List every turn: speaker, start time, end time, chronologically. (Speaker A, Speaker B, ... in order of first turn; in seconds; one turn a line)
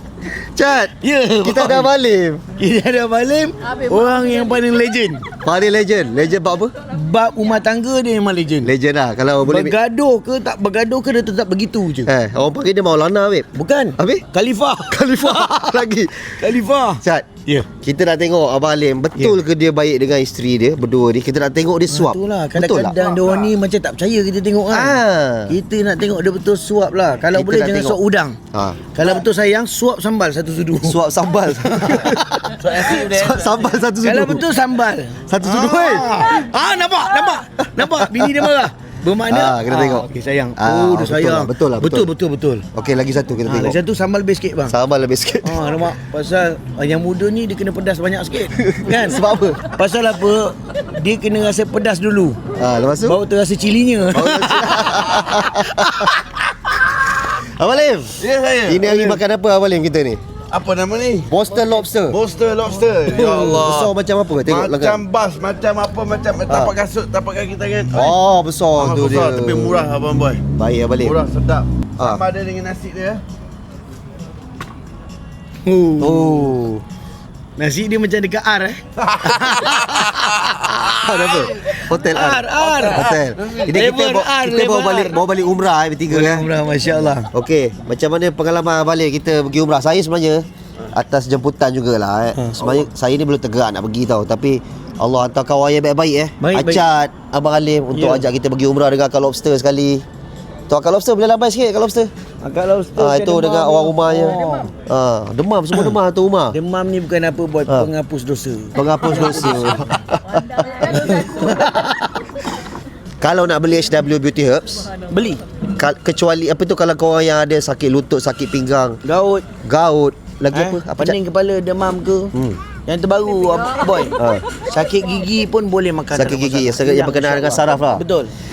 Speaker A: 0.2-0.9
Speaker B: 1.0-1.9
Speaker A: 1.4-2.4
Speaker B: 2.5-5.2
Speaker A: 5.4-6.7
Speaker B: 6.9-8.7
Speaker A: 8.6-9.8
Speaker B: 9.4-12.1
Speaker A: 12.0-14.2
Speaker B: 13.5-15.7
Speaker A: 14.9-16.5
Speaker B: 16.4-17.7
Speaker A: 17.0-22.9
Speaker B: 21.9-28.4
Speaker C: 23.0-23.3
Speaker A: 24.7-25.6
Speaker A: 27.3-28.0
Speaker A: 28.5-28.8
Speaker B: 28.9-31.0
Speaker A: 30.8-34.5
Speaker B: 31.6-33.1
Speaker C: 32.6-33.7
Speaker B: 34.0-42.6
Speaker A: 35.2-36.1
Speaker C: 35.5-36.0
Speaker A: 37.6-38.6
Speaker A: 39.3-42.1
Speaker A: 42.7-43.8
Speaker B: 43.5-44.7
Speaker A: 44.7-45.9
Speaker B: 45.4-52.4
Speaker A: 48.6-49.6
Speaker A: 52.5-53.2
Speaker B: 53.0-56.1
Speaker A: 54.1-56.1
Speaker A: 57.2-60.2
Speaker C: 58.2-59.2
Speaker C: 60.5-61.3
Speaker A: 61.3-62.2
Speaker C: 62.1-63.9
Speaker B: 63.1-63.6
Speaker A: 63.2-65.0
Speaker C: 64.4-68.2
Speaker A: 66.5-66.7
Speaker A: 67.9-69.8
Speaker C: 68.8-70.5
Speaker A: 70.5-71.2
Speaker C: 71.0-73.2
Speaker B: 75.6-76.5
Speaker A: 76.0-76.8
Speaker B: 77.6-80.8
Speaker C: 79.1-81.4
Speaker A: 80.9-86.5
Speaker B: 81.5-85.2
Speaker C: 82.6-83.6
Speaker B: 86.1-87.3
Speaker A: 87.3-100.0
Speaker B: 92.3-92.7
Speaker B: 96.4-96.9
Speaker B: 97.9-98.2
Speaker A: 100.7-102.1
Speaker B: 102.4-104.7
Speaker A: 103.0-106.5
Speaker B: 106.5-109.8
Speaker A: 108.7-111.5
Speaker B: 110.8-112.3
Speaker A: 113.2-114.9
Speaker B: 115.0-115.4
Speaker A: 115.8-119.0
Speaker B: 119.0-119.5
Speaker A: 119.6-121.2
Speaker B: 120.5-122.3
Speaker A: 122.3-122.6
Speaker B: 122.8-128.3
Speaker A: 124.2-124.4
Speaker A: 126.1-128.0